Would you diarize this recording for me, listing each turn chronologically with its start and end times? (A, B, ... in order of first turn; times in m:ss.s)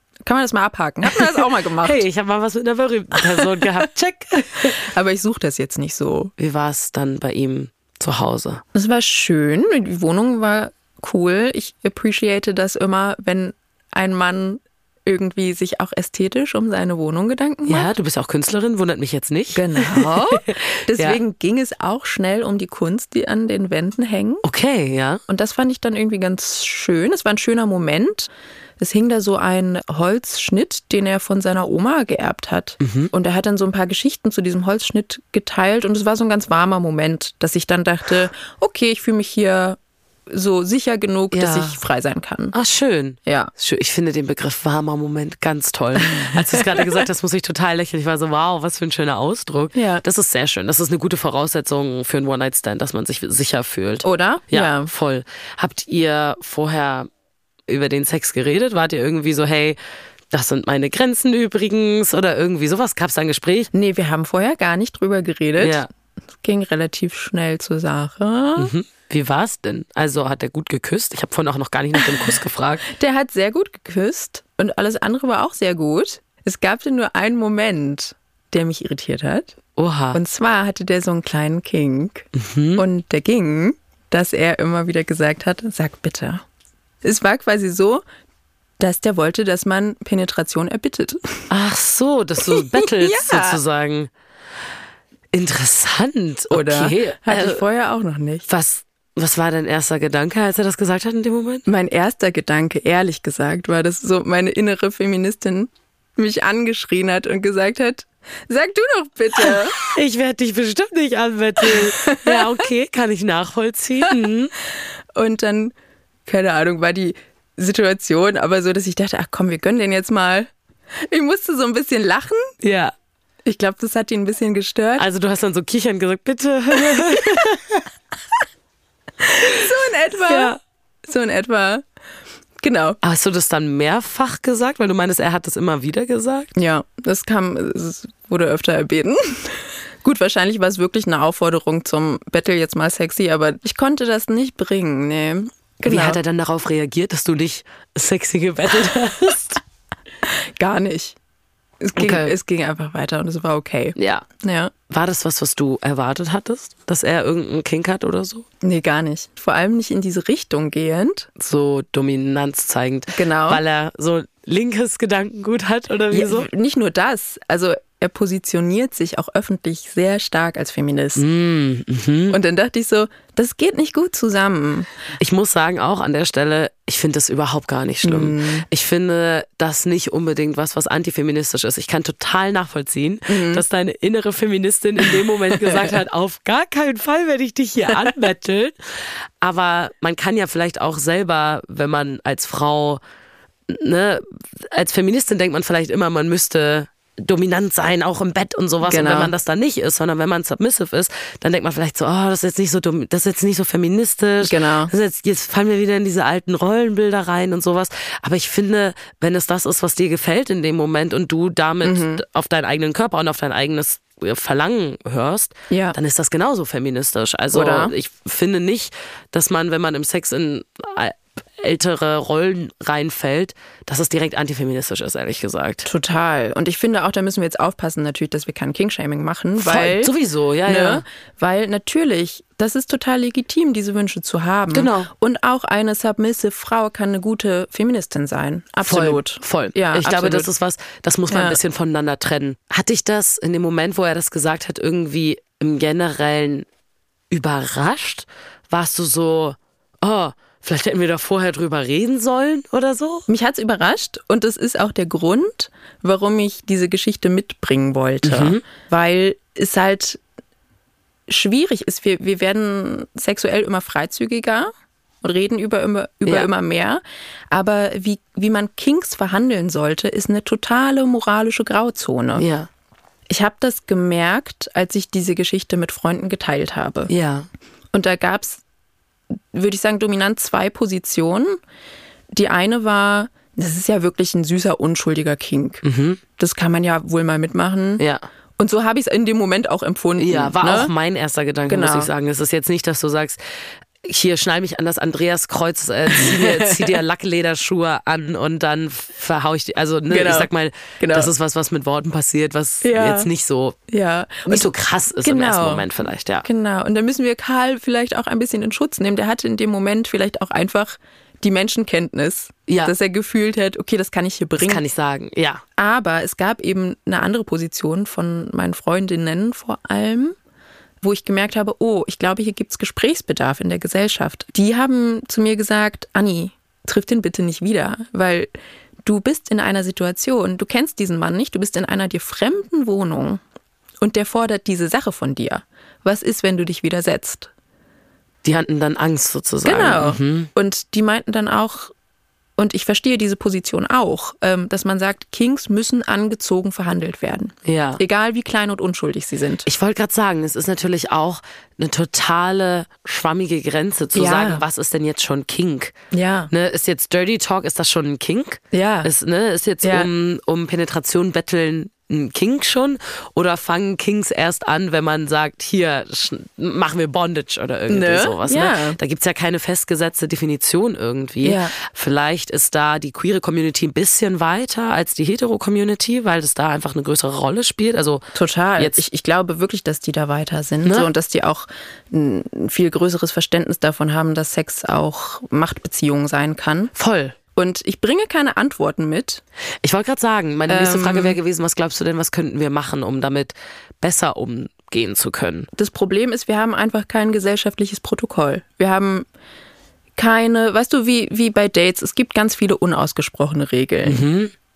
0:00.2-0:02.0 A
0:01.1-0:04.8 B
0:03.3-0:03.6 A
0:04.6-0:06.3 A
0:06.4-0:08.6 B
0:08.7-0:17.9 A
0:17.7-0:21.2 B
0:19.5-0:24.4 A
0:24.4-0:25.2 B
0:25.3-0:42.6 A
0:32.8-0:33.1 B
0:41.3-0:41.8 B
0:42.5-0:57.1 B
0:43.3-0:43.5 A
0:46.2-0:47.0 A
0:49.7-0:50.0 A
0:54.0-0:54.9 A
0:57.7-0:59.8 B
1:00.3-1:03.7 B
1:03.7-1:05.8 A
1:05.6-1:05.9 B
1:06.4-1:08.7 A
1:08.6-1:12.9 B
1:12.9-1:19.6 A
1:19.8-1:20.2 B
1:20.1-1:22.3 A
1:22.4-1:22.8 B
1:22.8-1:26.4 A
1:27.0-1:28.0 A
1:28.8-1:31.4 A
1:31.5-1:34.1 B
1:32.5-1:33.6 A
1:35.3-1:37.6 B
1:36.5-1:38.5 A
1:38.5-1:41.6 B
1:41.7-1:49.8 A
1:49.8-1:54.5 B
1:51.6-1:52.6 A
1:55.1-1:55.8 A
1:56.3-2:00.5 A
2:01.1-2:02.5 A
2:02.6-2:02.9 B
2:03.4-2:05.1 A
2:05.0-2:07.6 B
2:06.8-2:07.4 A
2:09.2-2:11.8 A
2:10.3-2:10.6 B
2:12.6-2:13.0 A
2:13.0-2:16.5 B
2:16.6-2:26.2 A
2:25.9-2:29.6 B
2:30.3-2:31.2 A
2:31.8-2:34.7 A
2:32.0-2:32.3 B
2:34.0-2:34.2 B
2:34.9-2:38.4 B
2:38.6-2:41.3 A
2:41.4-2:46.5 B
2:43.1-2:43.6 A
2:46.1-2:51.2 A
2:51.2-2:52.4 B
2:52.3-2:54.9 A
2:55.2-3:08.8 B
2:58.0-2:58.7 A
3:03.3-3:03.6 A
3:09.4-3:13.0 B
3:13.7-3:45.9 B
3:18.8-3:19.3 A
3:24.4-3:24.9 A
3:31.8-3:32.2 A
3:35.7-3:36.0 A
3:37.5-3:37.9 A
3:45.8-3:50.1 A
3:49.6-3:51.0 B
3:50.7-4:00.5 A
3:54.7-3:55.1 B
3:58.8-4:06.7 B
4:01.3-4:01.6 A
4:07.3-4:13.3 B
4:13.3-4:20.2 A
4:18.2-4:18.6 B
4:21.3-4:24.7 A
4:25.2-4:32.5 A
4:32.4-4:32.7 B
4:33.3-4:37.1 A
4:37.1-4:37.5 B
4:37.9-4:38.6 A
4:39.5-4:41.6 A
4:42.3-4:45.8 A
4:45.8-4:46.2 B
4:46.4-4:48.0 A
4:48.0-4:48.3 B
4:48.6-4:50.9 A
4:50.2-4:53.4 B
4:51.7-4:52.1 A
4:54.0-5:03.8 B
4:56.1-4:57.0 A
5:00.1-5:01.3 A
5:02.8-5:03.3 A
5:03.9-5:05.9 A
5:04.5-5:06.5 B
5:06.4-5:14.8 A
5:12.7-5:12.9 B
5:14.6-5:15.6 B
5:15.8-5:20.4 A
5:21.0-5:28.5 A
5:29.0-5:33.4 A
5:34.0-5:37.5 A
5:38.4-5:40.5 B
5:39.6-5:41.9 A
5:42.6-5:49.7 A
5:47.6-5:48.0 B
5:49.6-5:56.0 B
5:54.2-5:54.6 A
5:56.1-5:56.5 A
5:56.5-6:19.0 B
5:58.7-5:59.1 A
5:59.8-6:00.1 A
6:07.9-6:09.0 A
6:11.4-6:11.7 A
6:18.3-6:26.9 A
6:27.0-6:27.4 B
6:27.6-6:29.4 A
6:29.8-6:35.7 B
6:30.7-6:31.4 A
6:35.8-6:39.3 A
6:40.2-6:44.2 A
6:44.0-6:44.5 B